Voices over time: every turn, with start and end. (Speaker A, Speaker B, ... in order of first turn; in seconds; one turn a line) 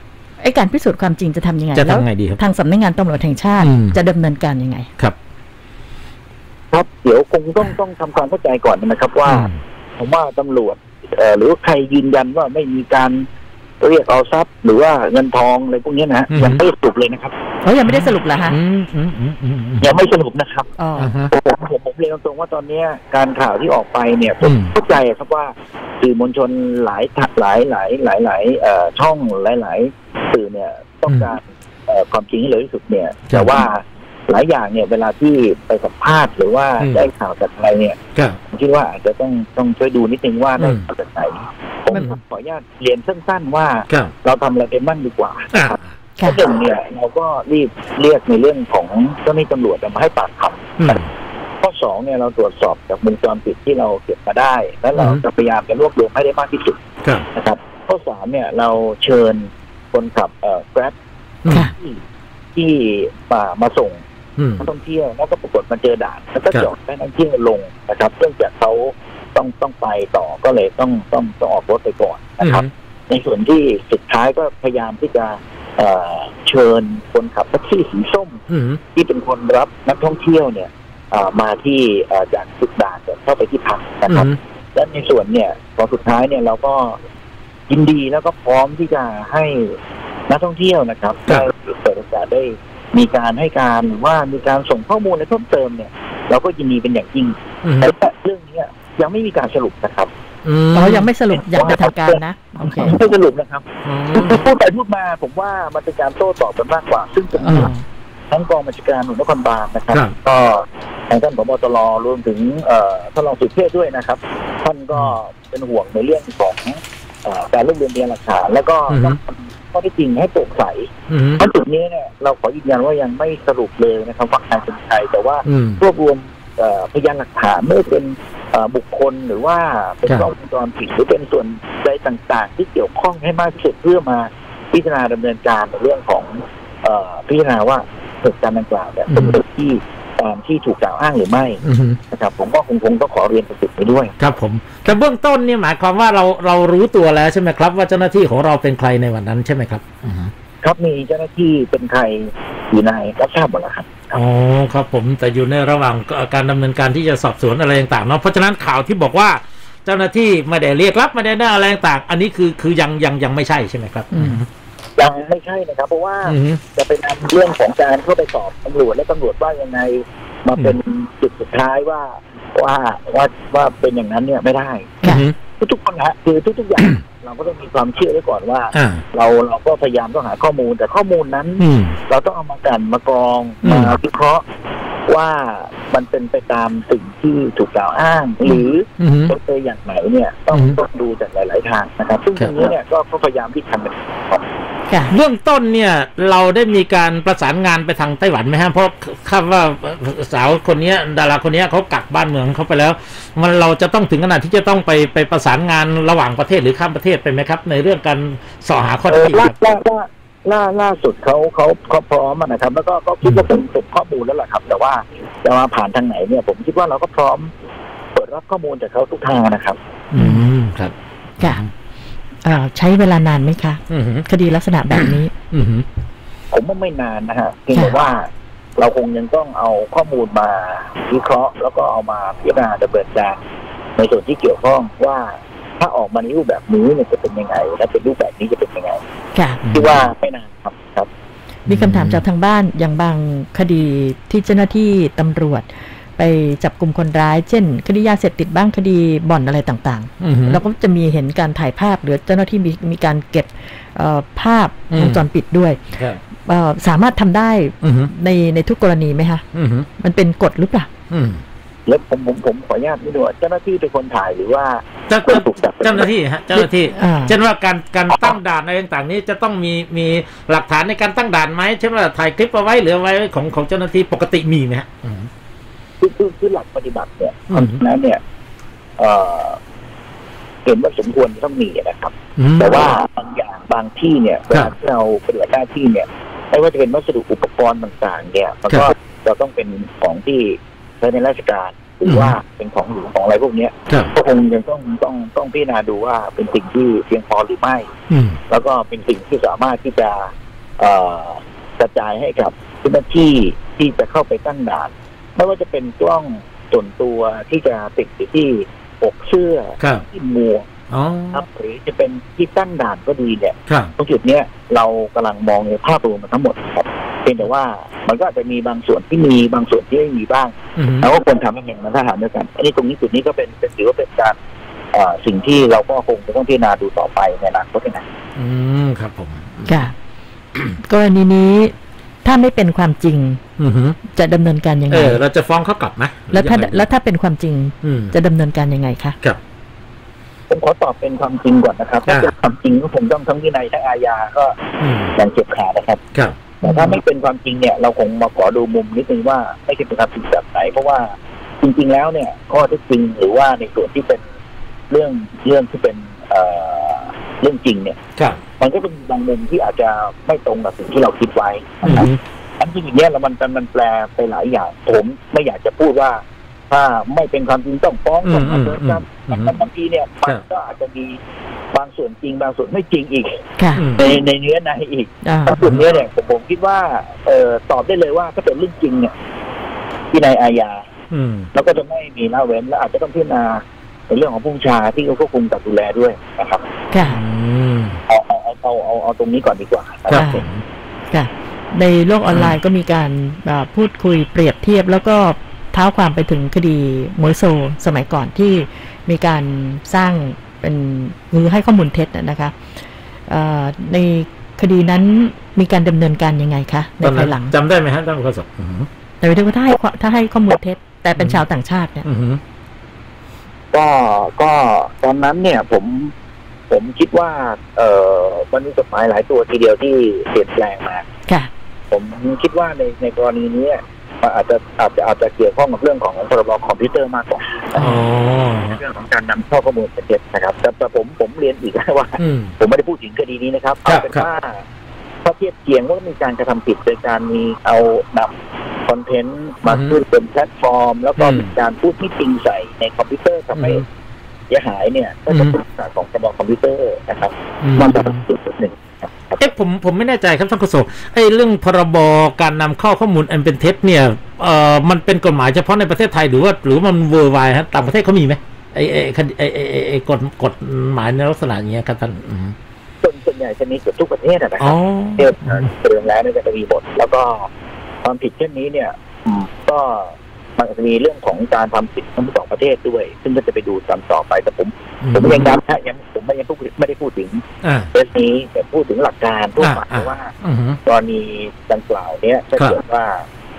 Speaker A: 0.4-4.9
Speaker B: 1.7-2.4
Speaker B: 3.6-4.0
Speaker C: 6.7-13.3
Speaker B: 9.2-9.6
Speaker C: 13.8-17.3
Speaker B: 16.3-16.6
Speaker A: 17.6-18.6
Speaker B: 17.9-19.9
Speaker C: 19.8-20.8
Speaker A: 20.8-21.1
Speaker B: 20.9-21.3
Speaker C: 21.3-38.0
Speaker B: 24.4-24.7
Speaker B: 36.8-37.1
Speaker C: 38.5-50.9
Speaker B: 40.6-40.9
Speaker B: 45.5-45.8
Speaker B: 50.8-51.1
Speaker C: 51.6-56.8
Speaker B: 54.9-55.2
Speaker C: 57.3-60.9
Speaker C: 61.5-62.0
Speaker C: 62.5-64.0
Speaker B: 64.4-64.7
Speaker C: 64.6-78.4
Speaker B: 72.4-72.7
Speaker B: 78.5-78.8
Speaker C: 78.9-87.0
Speaker B: 84.1-84.4
Speaker C: 87.7-89.8
Speaker C: 90.3-100.1
Speaker B: 97.6-97.9
Speaker B: 100.4-101.1
Speaker A: 100.7-103.0
Speaker C: 101.3-107.7
Speaker B: 103.8-104.4
Speaker A: 107.4-107.8
Speaker B: 107.5-107.7
Speaker C: 108.3-144.2
Speaker B: 118.9-119.2
Speaker B: 121.1-121.4
Speaker B: 125.5-125.8
Speaker B: 139.1-139.4
Speaker B: 141.6-142.0
Speaker B: 144.2-150.3
Speaker C: 150.6-154.2
Speaker B: 154.1-164.5
Speaker A: 164.1-164.4
Speaker C: 165.0-175.0
Speaker B: 166.2-166.6
Speaker B: 175.0-175.3
Speaker C: 175.6-184.4
Speaker B: 178.7-179.0
Speaker B: 181.6-182.0
Speaker B: 183.6-183.9
Speaker C: 185.1-194.4
Speaker B: 189.0-189.3
Speaker B: 190.5-190.8
Speaker B: 192.4-192.7
Speaker B: 195.1-209.6
Speaker C: 209.1-217.5
Speaker C: 218.1-219.8
Speaker B: 220.1-221.7
Speaker A: 220.1-220.4
Speaker A: 222.4-225.3
Speaker B: 223.9-224.2
Speaker B: 224.9-225.8
Speaker C: 226.5-233.4
Speaker C: 234.0-239.0
Speaker A: 239.3-239.6
Speaker B: 239.6-240.1
Speaker C: 239.7-241.1
Speaker B: 241.7-242.2
Speaker A: 241.7-255.8
Speaker B: 250.2-250.6
Speaker B: 254.9-255.2
Speaker B: 255.9-256.2
Speaker A: 256.4-259.4
Speaker B: 257.8-258.1
Speaker B: 259.5-259.9
Speaker A: 260.0-260.9
Speaker B: 261.1-261.4
Speaker C: 261.9-266.1
Speaker B: 265.1-275.3
Speaker A: 266.6-267.4
Speaker C: 276.0-278.2
Speaker B: 277.5-277.8
Speaker C: 279.0-279.6
Speaker C: 280.6-297.9
Speaker B: 282.4-282.9
Speaker B: 292.1-292.4
Speaker B: 298.1-298.4
Speaker C: 298.5-310.7
Speaker B: 309.8-310.0
Speaker B: 310.9-311.4
Speaker C: 311.3-324.4
Speaker B: 320.8-321.1
Speaker C: 324.9-328.0
Speaker B: 328.4-329.8
Speaker A: 329.6-329.9
Speaker A: 330.8-333.4
Speaker B: 333.6-334.0
Speaker A: 334.1-335.2
Speaker B: 334.9-336.9
Speaker A: 336.3-339.2
Speaker B: 337.8-338.1
Speaker C: 340.5-344.6
Speaker B: 342.1-342.3
Speaker B: 344.8-345.1
Speaker C: 345.1-346.0
Speaker C: 346.6-354.2
Speaker A: 346.6-346.9
Speaker C: 354.9-358.0
Speaker C: 358.6-371.2
Speaker B: 361.8-362.2
Speaker B: 368.2-369.6
Speaker C: 371.7-373.4
Speaker A: 373.6-373.8
Speaker B: 373.8-374.1
Speaker C: 373.9-379.1
Speaker A: 375.2-375.5
Speaker C: 380.1-380.9
Speaker B: 381.1-381.5
Speaker C: 381.5-386.6
Speaker A: 386.9-387.2
Speaker B: 387.0-388.0
Speaker C: 388.1-390.4
Speaker B: 390.1-390.6
Speaker A: 390.1-390.4
Speaker A: 391.1-402.6
Speaker B: 392.3-392.6
Speaker A: 403.3-407.5
Speaker B: 407.0-408.9
Speaker A: 409.2-412.0
Speaker B: 411.1-411.4
Speaker B: 412.0-412.4
Speaker C: 413.7-416.1
Speaker C: 416.7-421.1
Speaker C: 421.9-428.0
Speaker B: 427.8-428.8
Speaker C: 428.6-434.6
Speaker B: 432.2-432.5
Speaker B: 433.9-434.2
Speaker C: 435.2-438.3
Speaker C: 438.9-443.8
Speaker B: 439.6-439.9
Speaker B: 441.2-441.5
Speaker B: 443.5-443.8
Speaker C: 444.5-449.5
Speaker B: 445.3-445.6
Speaker B: 447.6-448.2
Speaker B: 449.4-462.5
Speaker C: 463.0-467.5
Speaker B: 464.6-465.7
Speaker C: 468.0-480.3
Speaker B: 475.0-475.5
Speaker B: 477.6-477.9
Speaker B: 479.6-480.8
Speaker C: 480.9-483.2